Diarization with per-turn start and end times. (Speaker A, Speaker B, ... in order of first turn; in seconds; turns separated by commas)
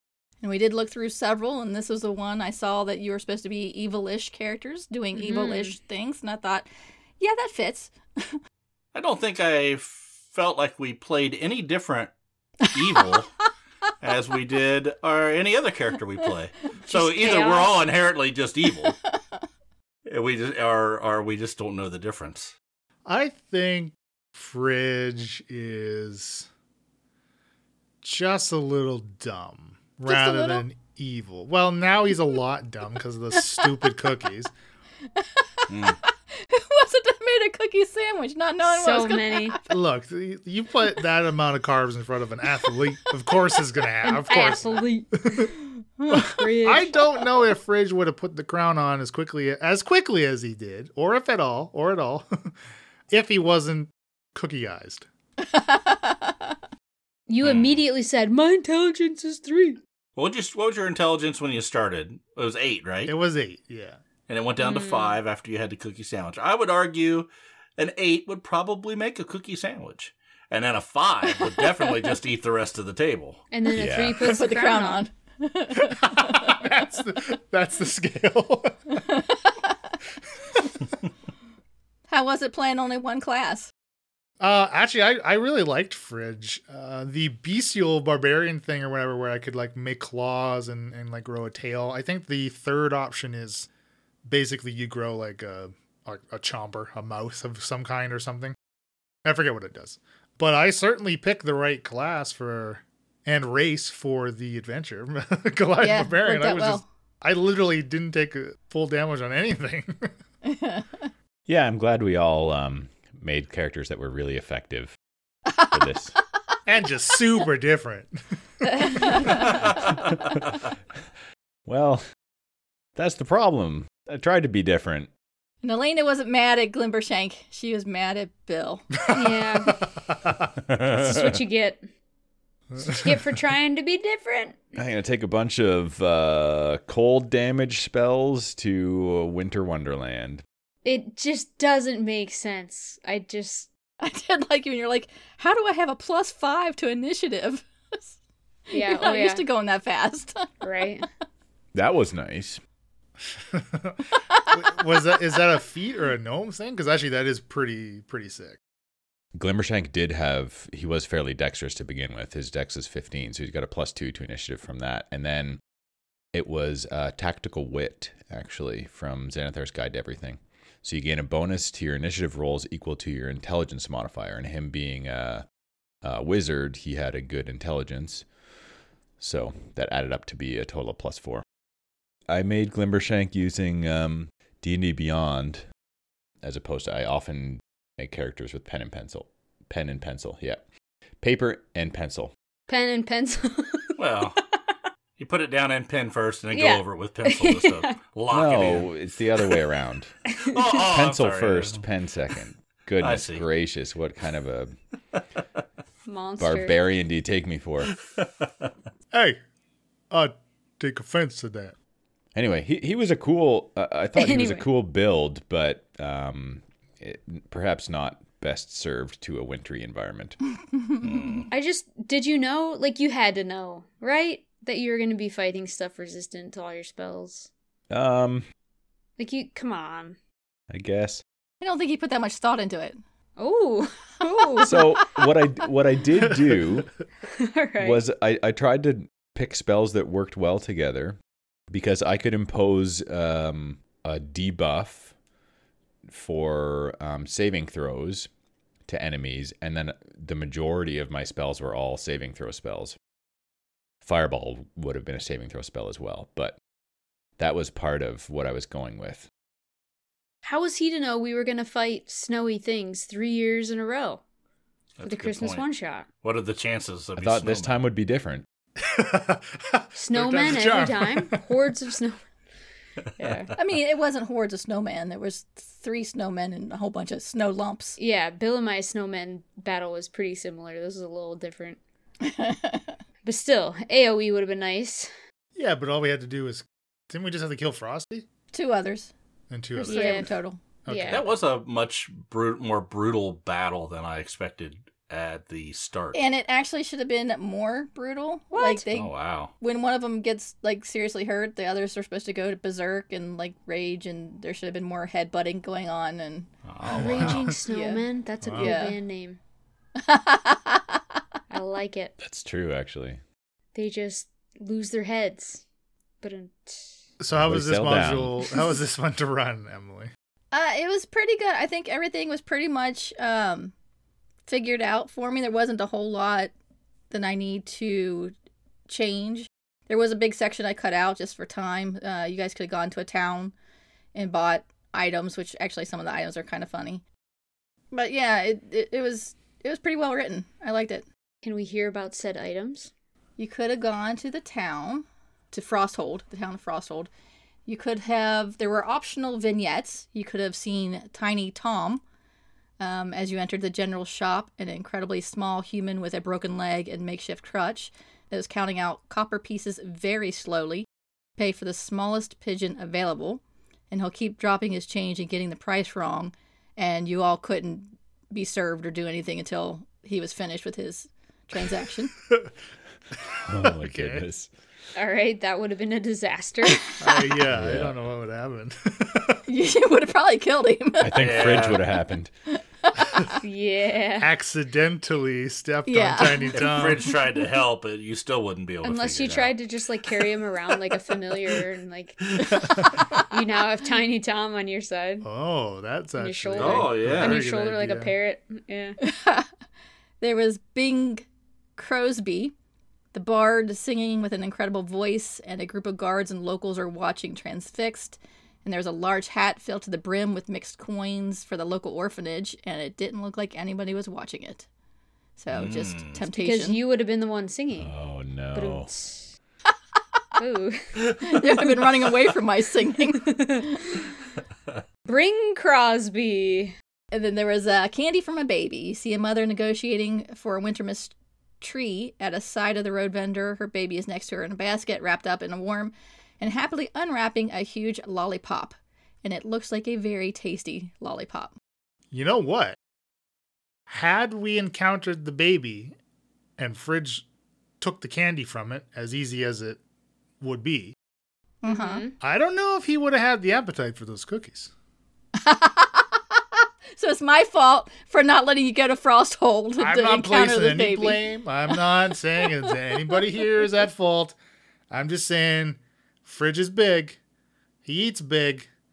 Speaker A: 0.4-6.7, Speaker B: 5.2-5.8, Speaker A: 7.2-8.4, Speaker C: 8.9-12.1, Speaker C: 12.6-13.4, Speaker C: 14.0-19.0, Speaker B: 16.9-17.7, Speaker C: 20.1-22.5, Speaker D: 23.1-26.5, Speaker D: 28.0-34.5, Speaker A: 30.1-30.6, Speaker A: 33.4-34.1, Speaker A: 35.2-39.6, Speaker C: 35.7-36.0, Speaker B: 38.6-39.6, Speaker D: 39.7-45.5, Speaker A: 42.6-43.3, Speaker B: 44.0-45.5, Speaker A: 46.0-46.4, Speaker D: 46.1-52.5, Speaker B: 46.3-47.0, Speaker D: 53.1-55.1, Speaker A: 55.4-56.5, Speaker B: 57.3-59.8, Speaker C: 57.4-57.8, Speaker C: 60.2-63.1, Speaker D: 63.1-64.0, Speaker C: 64.3-73.4, Speaker B: 64.6-65.2, Speaker B: 73.5-75.0, Speaker E: 73.7-74.3, Speaker A: 74.2-76.7, Speaker D: 75.8-79.1, Speaker A: 79.0-79.9, Speaker A: 82.1-83.7, Speaker D: 84.4-93.7, Speaker D: 94.2-98.6, Speaker D: 99.2-110.1, Speaker A: 105.8-106.9, Speaker A: 110.4-111.1, Speaker E: 111.5-115.0, Speaker E: 115.7-116.2, Speaker D: 116.7-119.5, Speaker B: 118.8-119.3, Speaker A: 119.0-119.3, Speaker E: 121.7-122.0, Speaker E: 123.0-125.1, Speaker A: 125.6-128.9, Speaker D: 129.1-130.5, Speaker B: 129.1-129.8, Speaker E: 130.7-131.4, Speaker B: 130.8-131.9, Speaker D: 132.7-133.2, Speaker B: 132.8-134.7, Speaker E: 134.8-140.4, Speaker B: 140.8-143.7, Speaker A: 144.0-148.2, Speaker A: 148.7-150.6, Speaker B: 148.7-149.5, Speaker B: 150.6-151.1, Speaker E: 151.7-152.6, Speaker D: 153.4-158.6, Speaker E: 159.3-165.6, Speaker E: 166.3-175.4, Speaker E: 176.0-178.2, Speaker E: 179.2-181.4, Speaker E: 182.3-185.7, Speaker E: 186.4-190.6, Speaker E: 191.2-192.3, Speaker B: 192.7-194.0, Speaker C: 194.0-194.4, Speaker C: 195.2-198.9, Speaker B: 196.5-198.0, Speaker E: 198.3-200.2, Speaker B: 200.4-200.6, Speaker C: 200.4-201.8, Speaker E: 200.8-204.8, Speaker C: 203.0-203.4, Speaker B: 206.1-206.8, Speaker E: 206.4-208.0, Speaker D: 209.1-209.4, Speaker D: 210.1-211.7, Speaker E: 212.3-220.4, Speaker B: 214.2-214.7, Speaker C: 221.0-221.5, Speaker B: 221.5-227.5, Speaker E: 227.9-228.4, Speaker B: 229.2-230.2, Speaker E: 230.7-231.2, Speaker A: 231.6-233.0, Speaker B: 233.4-235.0, Speaker A: 234.6-235.1, Speaker E: 234.6-236.9, Speaker B: 237.3-238.0, Speaker E: 237.8-241.2, Speaker E: 241.7-245.1, Speaker E: 246.1-248.3, Speaker E: 248.9-253.0, Speaker E: 254.0-256.6, Speaker E: 257.4-259.3, Speaker B: 260.4-264.2, Speaker C: 265.0-265.7, Speaker B: 265.0-266.1, Speaker C: 266.2-267.8, Speaker E: 267.2-268.4, Speaker D: 268.8-271.4, Speaker B: 270.0-272.2, Speaker B: 273.2-273.5, Speaker C: 273.2-273.5, Speaker A: 273.6-278.0, Speaker B: 278.0-281.8, Speaker A: 282.2-282.9, Speaker B: 283.2-285.1, Speaker D: 285.6-288.3, Speaker A: 288.5-289.1, Speaker D: 289.5-290.3, Speaker A: 289.8-290.6, Speaker B: 289.9-290.3, Speaker D: 290.9-291.3, Speaker B: 290.9-291.2, Speaker C: 291.1-296.2, Speaker A: 296.1-306.5, Speaker B: 298.5-298.9, Speaker C: 298.9-299.5, Speaker C: 306.7-307.5, Speaker D: 306.9-307.6, Speaker B: 306.9-309.4, Speaker A: 307.6-308.0, Speaker D: 308.4-308.7, Speaker A: 308.6-309.0, Speaker A: 310.0-311.0, Speaker B: 311.5-312.1, Speaker E: 312.2-313.2, Speaker B: 313.8-315.6, Speaker B: 316.2-316.9, Speaker D: 317.2-320.1, Speaker E: 317.3-318.4, Speaker A: 320.5-323.7, Speaker A: 324.5-326.5, Speaker A: 327.1-328.3, Speaker A: 328.9-333.5, Speaker A: 334.1-337.0, Speaker A: 337.9-341.1, Speaker B: 341.4-342.9, Speaker A: 343.4-347.1, Speaker A: 347.7-352.0, Speaker A: 352.8-360.9, Speaker A: 361.4-372.1, Speaker D: 373.3-374.2, Speaker E: 373.4-374.5, Speaker B: 374.9-377.1, Speaker D: 377.0-379.4, Speaker E: 377.5-378.0, Speaker A: 379.5-381.1, Speaker E: 381.0-382.3, Speaker C: 381.2-381.8, Speaker B: 383.3-384.3, Speaker D: 384.2-387.1, Speaker A: 385.9-386.9, Speaker C: 386.5-389.6, Speaker B: 388.8-395.3, Speaker A: 392.5-393.2, Speaker D: 395.2-398.1, Speaker B: 396.2-399.0, Speaker C: 396.6-397.4, Speaker A: 399.0-399.5, Speaker A: 400.2-402.5, Speaker A: 403.1-414.7, Speaker A: 415.4-416.8, Speaker C: 415.5-416.2, Speaker B: 416.3-417.9, Speaker E: 417.8-418.9, Speaker B: 418.5-419.3, Speaker B: 420.4-421.0, Speaker A: 421.2-423.9, Speaker B: 423.1-424.0, Speaker B: 425.1-426.7, Speaker A: 427.1-441.6, Speaker D: 442.1-442.8, Speaker D: 443.9-445.9, Speaker D: 446.6-447.2, Speaker D: 447.8-449.8, Speaker D: 450.4-450.9, Speaker A: 451.6-452.1, Speaker B: 451.7-452.2, Speaker D: 452.2-454.7, Speaker A: 455.4-456.4, Speaker A: 457.0-461.2, Speaker D: 459.8-464.4, Speaker A: 462.4-462.7, Speaker D: 464.9-467.2, Speaker D: 467.9-468.7